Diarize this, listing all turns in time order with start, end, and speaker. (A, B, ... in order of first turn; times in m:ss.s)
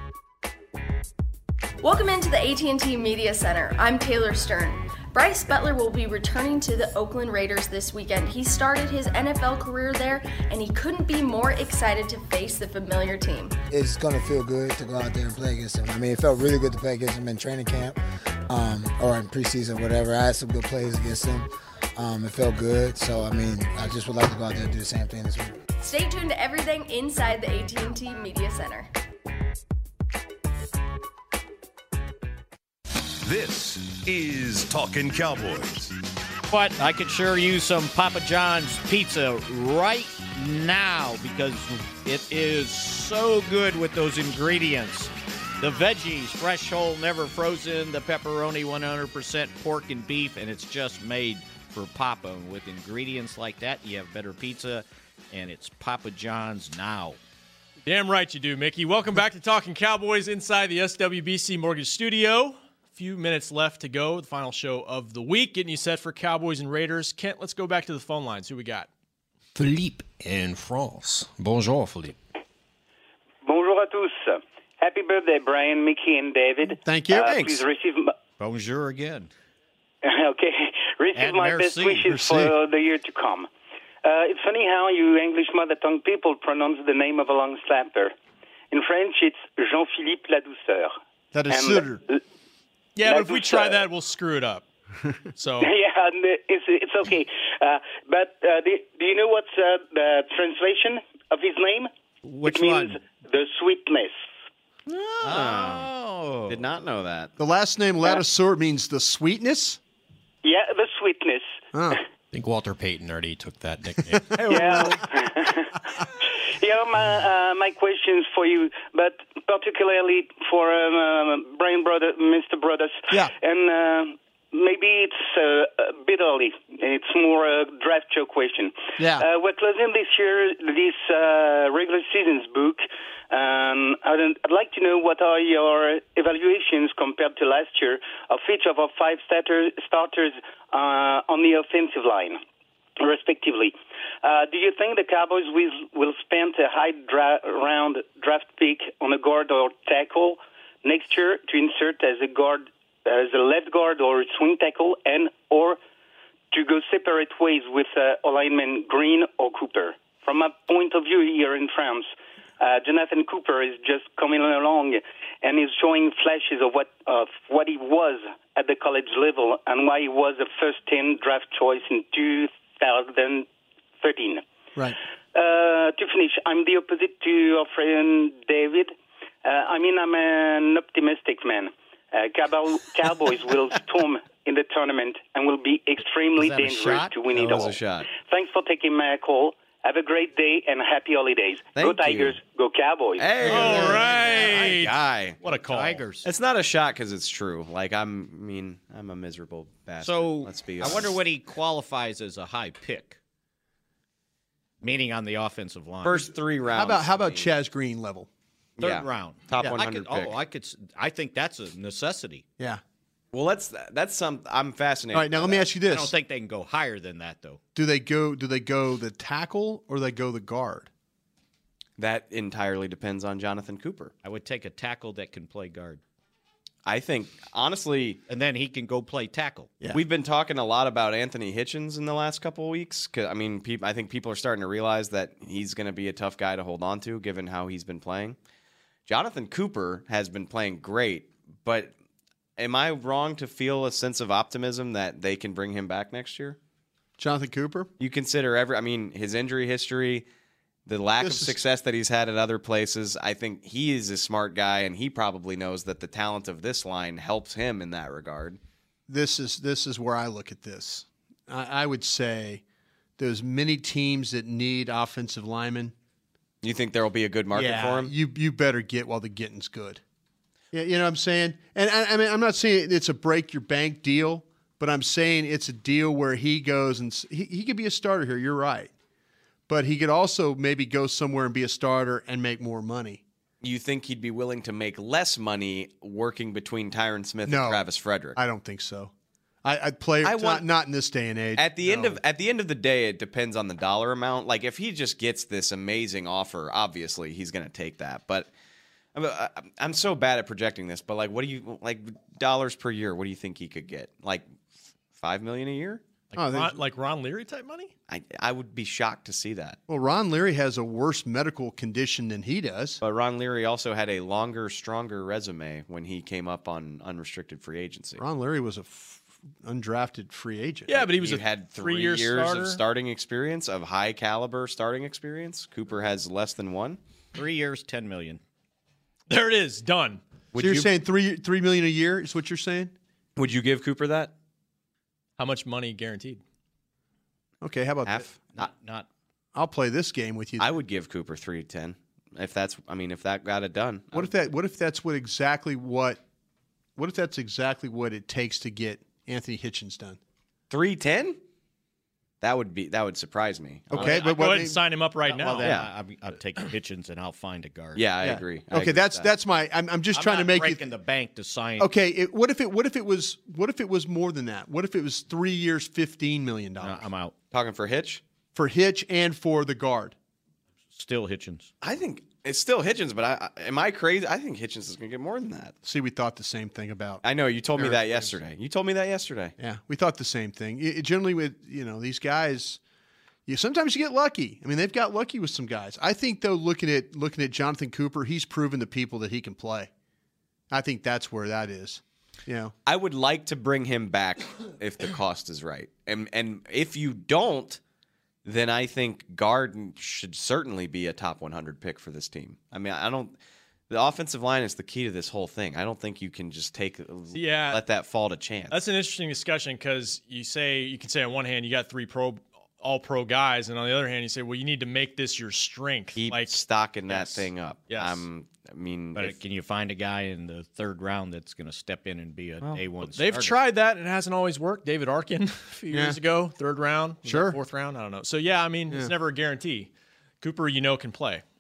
0:01.8-0:13.6 A
0:13.7-0:18.0 B
0:18.5-0:25.6 B
0:25.8-0:28.9 A
0:33.2-0:35.9 C
0:36.5-0:57.2 D
0:57.8-1:08.9 E
1:09.6-1:12.2 F
1:13.4-1:18.1 G
1:16.8-1:17.4 H
1:17.2-1:17.6 I
1:18.4-1:19.3 D
1:20.0-1:23.5 G
1:21.1-1:22.5 D
1:24.0-1:28.1 G
1:28.7-1:30.9 G
1:31.3-1:32.0 H
1:31.5-1:32.2 G
1:33.0-1:34.6 E
1:33.0-1:33.9 G
1:35.4-1:35.7 E
1:35.6-1:41.9 G
1:42.2-1:43.0 D
1:42.4-1:44.2 G
1:44.9-1:45.9 I
1:45.2-1:46.6 D
1:46.5-1:47.3 I
1:47.4-1:49.8 H
1:50.4-1:52.0 G
1:51.7-1:52.0 H
1:52.3-1:54.7 F
1:54.4-1:55.0 H
1:54.4-2:22.4 G
2:09.0-2:09.2 H
2:23.0-2:35.8 G
2:36.5-2:42.1 G
2:42.6-2:53.5 G
2:54.0-2:54.4 G
2:55.3-2:58.9 G
2:59.4-3:13.4 G
3:06.4-3:07.7 D
3:07.4-3:08.1 I
3:11.8-3:12.4 I
3:13.2-3:15.4 I
3:13.4-3:14.7 D
3:13.4-3:16.0 E
3:15.6-3:16.3 D
3:16.2-3:21.2 I
3:20.0-3:23.2 D
3:24.8-3:26.3 D
3:26.0-3:27.5 I
3:26.7-3:28.3 H
3:28.8-3:30.4 I
3:28.8-3:32.4 D
3:33.3-3:35.7 I
3:35.1-3:36.1 H
3:35.9-3:37.6 D
3:37.8-3:40.9 H
3:42.0-3:44.1 I
3:44.2-3:46.0 D
3:46.9-3:48.2 I
3:48.3-3:49.7 D
3:49.9-3:58.4 I
3:59.1-4:01.9 I
4:02.6-4:06.6 I
4:07.2-4:07.9 H
4:08.0-4:10.3 I
4:10.9-4:18.6 I
4:11.2-4:11.6 H
4:19.1-4:22.6 H
4:23.2-4:25.9 H
4:26.6-4:28.1 I
4:27.5-4:30.0 H
4:30.7-4:38.9 H
4:39.7-4:43.2 H
4:43.6-4:48.4 I
4:47.5-4:47.8 H
4:48.4-4:49.1 H
4:49.6-4:52.2 H
4:50.2-4:50.6 I
4:51.6-4:58.5 I
4:59.1-5:04.5 I
5:05.2-5:06.0 I
5:06.3-5:07.9 E
5:06.4-5:06.8 H
5:08.1-5:09.8 I
5:09.9-5:13.0 H
5:13.0-5:18.2 I
5:18.2-5:21.1 H
5:20.9-5:22.8 E
5:21.1-5:27.0 I
5:27.4-5:28.4 D
5:29.3-5:30.2 E
5:30.5-5:30.9 I
5:30.6-5:32.9 H
5:33.4-5:34.3 I
5:35.4-5:36.4 E
5:37.6-5:38.3 H
5:38.1-5:38.3 I
5:38.6-5:39.1 D
5:39.5-5:40.7 H
5:40.6-5:44.3 I
5:44.1-5:46.2 H
5:47.0-5:50.2 H
5:50.7-5:51.4 I
5:52.4-5:54.2 I
5:53.9-5:54.8 H
5:54.0-5:55.7 E
5:55.3-5:58.0 D
5:55.6-5:55.9 I
5:58.0-5:59.3 I
5:58.2-6:00.8 H
6:00.1-6:01.9 D
6:01.8-6:07.1 H
6:06.8-6:07.3 D
6:07.5-6:08.2 I
6:08.6-6:10.2 H
6:10.9-6:11.7 D
6:11.8-6:15.8 I
6:15.8-6:17.2 H
6:17.2-6:19.6 I
6:17.8-6:18.4 H
6:19.6-6:22.8 H
6:23.5-6:29.9 H
6:30.7-6:32.7 H
6:32.9-6:37.8 I
6:38.4-6:43.4 I
6:43.9-6:48.8 I
6:47.3-6:47.8 E
6:48.7-6:58.2 E
6:56.2-6:59.4 I
6:59.1-7:03.6 D
7:03.1-7:09.9 E
7:05.9-7:06.2 H
7:07.2-7:07.6 H
7:10.4-7:11.4 E